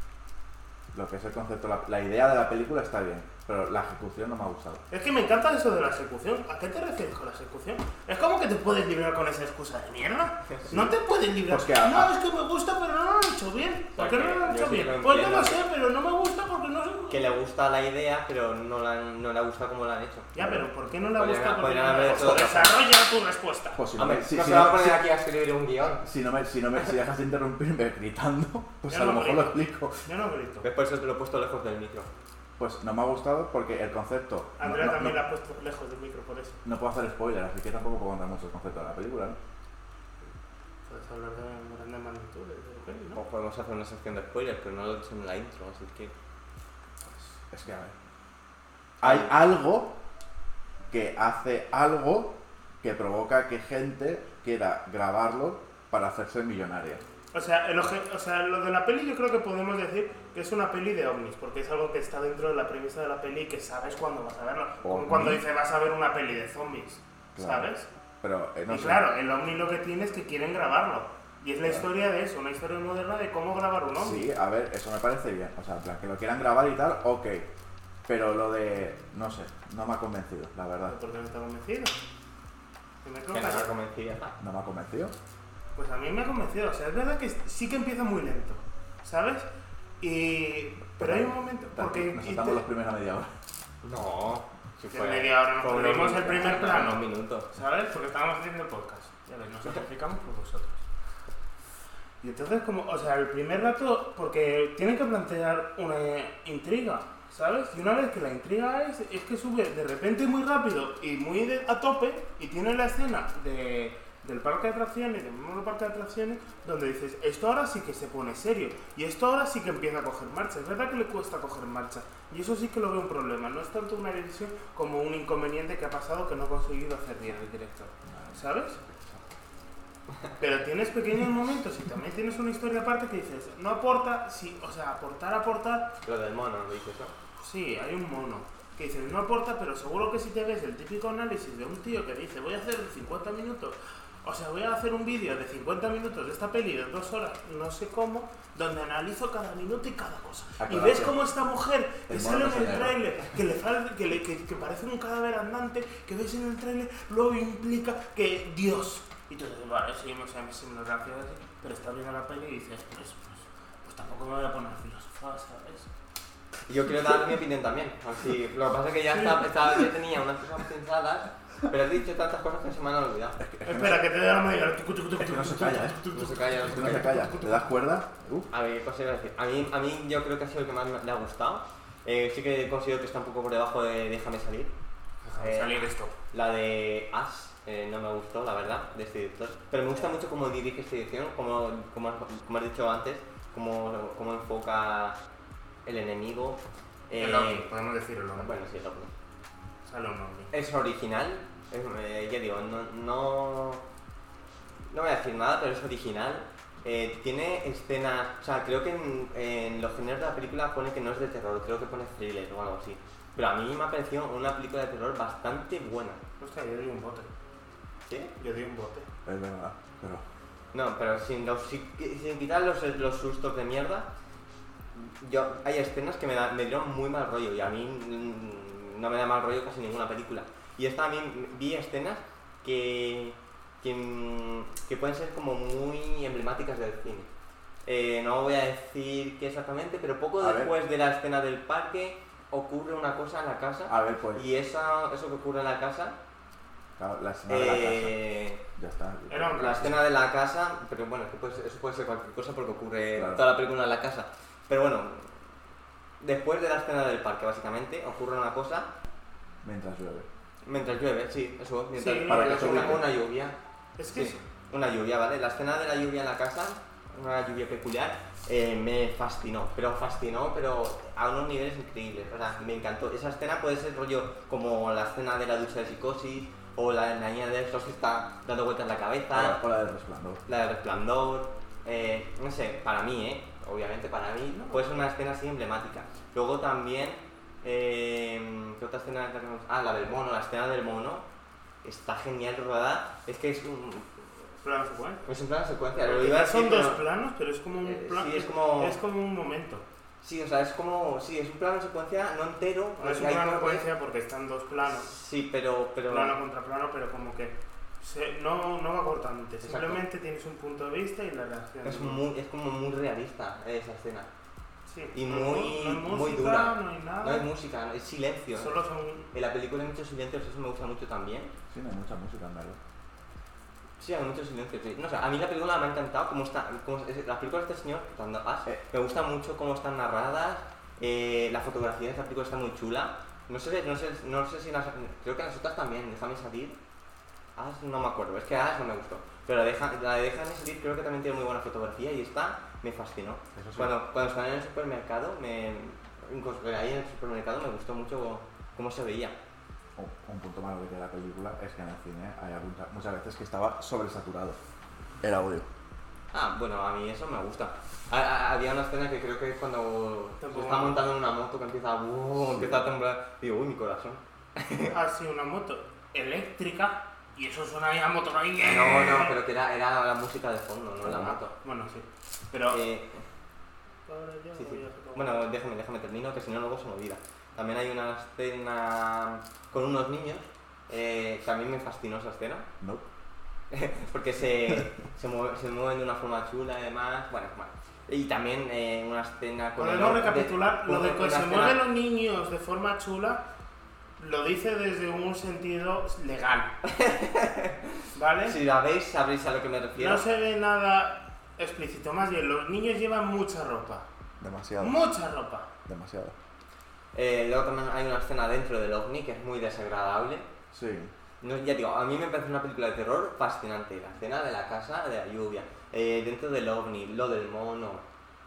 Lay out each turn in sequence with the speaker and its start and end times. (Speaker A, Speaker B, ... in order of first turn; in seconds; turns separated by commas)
Speaker A: 0.9-4.8, Speaker B: 4.9-17.2, Speaker A: 11.4-12.1, Speaker C: 13.9-15.6, Speaker C: 17.1-20.3, Speaker B: 20.3-23.8, Speaker A: 20.4-20.7, Speaker C: 21.2-22.8, Speaker A: 23.7-25.0, Speaker C: 24.0-26.0, Speaker A: 26.0-30.0, Speaker B: 28.9-30.6, Speaker C: 30.6-32.1, Speaker A: 32.6-35.2, Speaker B: 34.6-36.6, Speaker A: 36.6-39.4, Speaker B: 40.9-43.2, Speaker C: 43.1-46.1, Speaker A: 47.5-47.9, Speaker C: 49.0-49.3, Speaker A: 49.0-49.9, Speaker A: 50.9-57.0, Speaker B: 57.3-67.9, Speaker A: 64.8-65.4, Speaker A: 67.3-67.7, Speaker A: 68.2-69.0, Speaker B: 68.7-74.3, Speaker A: 74.0-77.5, Speaker A: 78.1-81.0, Speaker B: 80.8-81.9, Speaker B: 83.0-83.7, Speaker C: 83.3-84.3, Speaker A: 84.4-85.1, Speaker B: 85.8-89.5, Speaker B: 90.0-92.6, Speaker A: 91.0-93.3, Speaker C: 93.8-97.5, Speaker B: 94.9-100.8, Speaker B: 102.2-128.8, Speaker A: 128.0-129.2, Speaker B: 130.4-135.9, Speaker C: 136.0-137.1, Speaker B: 137.4-165.9, Speaker A: 150.6-151.2, Speaker A: 152.1-153.0, Speaker C: 166.7-173.4, Speaker A: 173.4-174.0, Speaker B: 173.6-177.7, Speaker A: 175.2-178.5, Speaker C: 176.1-177.1, Speaker C: 178.5-184.7, Speaker B: 185.2-186.1, Speaker C: 185.4-195.2, Speaker C: 195.8-197.7, Speaker B: 197.2-198.7, Speaker C: 198.4-199.1, Speaker B: 199.8-200.5, Speaker C: 200.5-203.8, Speaker C: 204.9-216.2, Speaker B: 216.4-217.3, Speaker C: 218.1-218.3, Speaker B: 218.4-219.1, Speaker A: 219.2-220.2, Speaker C: 220.7-224.1, Speaker C: 224.9-237.3, Speaker C: 237.8-246.2, Speaker A: 240.4-240.7, Speaker A: 243.9-244.4, Speaker A: 247.0-249.9, Speaker C: 247.5-248.6, Speaker B: 249.3-249.9, Speaker C: 249.6-255.4, Speaker A: 253.2-253.4, Speaker C: 256.2-258.9, Speaker A: 259.6-260.3, Speaker C: 260.6-263.6, Speaker B: 262.0-263.1, Speaker A: 262.3-263.1, Speaker B: 264.0-264.4, Speaker C: 264.1-279.6, Speaker A: 279.3-280.4, Speaker C: 280.4-291.2, Speaker B: 284.5-284.9, Speaker C: 291.8-294.2, Speaker B: 294.6-295.2, Speaker C: 295.2-297.0, Speaker B: 296.0-299.8, Speaker C: 297.8-299.0, Speaker C: 300.2-303.9, Speaker B: 303.0-305.1, Speaker C: 304.9-306.4, Speaker B: 306.1-312.2, Speaker C: 309.6-310.0, Speaker C: 311.8-314.3, Speaker B: 314.9-317.5, Speaker C: 315.1-318.7, Speaker B: 318.6-319.3, Speaker C: 319.3-321.5, Speaker A: 321.7-322.8, Speaker C: 324.0-336.8, Speaker C: 337.6-349.3, Speaker A: 343.6-343.9, Speaker A: 349.9-354.6, Speaker A: 355.2-355.6, Speaker C: 356.3-364.9, Speaker B: 360.4-361.0, Speaker A: 362.4-362.8, Speaker B: 364.8-369.3, Speaker C: 368.6-371.5, Speaker B: 371.2-372.8, Speaker C: 372.7-373.2, Speaker B: 374.1-375.3, Speaker C: 374.6-382.6, Speaker C: 383.7-391.8, Speaker B: 389.8-393.4, Speaker B: 394.2-396.7, Speaker C: 396.8-400.2, Speaker B: 398.1-398.6, Speaker B: 400.0-404.1, Speaker A: 404.4-405.0, Speaker B: 404.8-405.7, Speaker A: 405.9-406.3, Speaker C: 407.1-410.4, Speaker A: 410.7-411.1, Speaker C: 411.4-418.0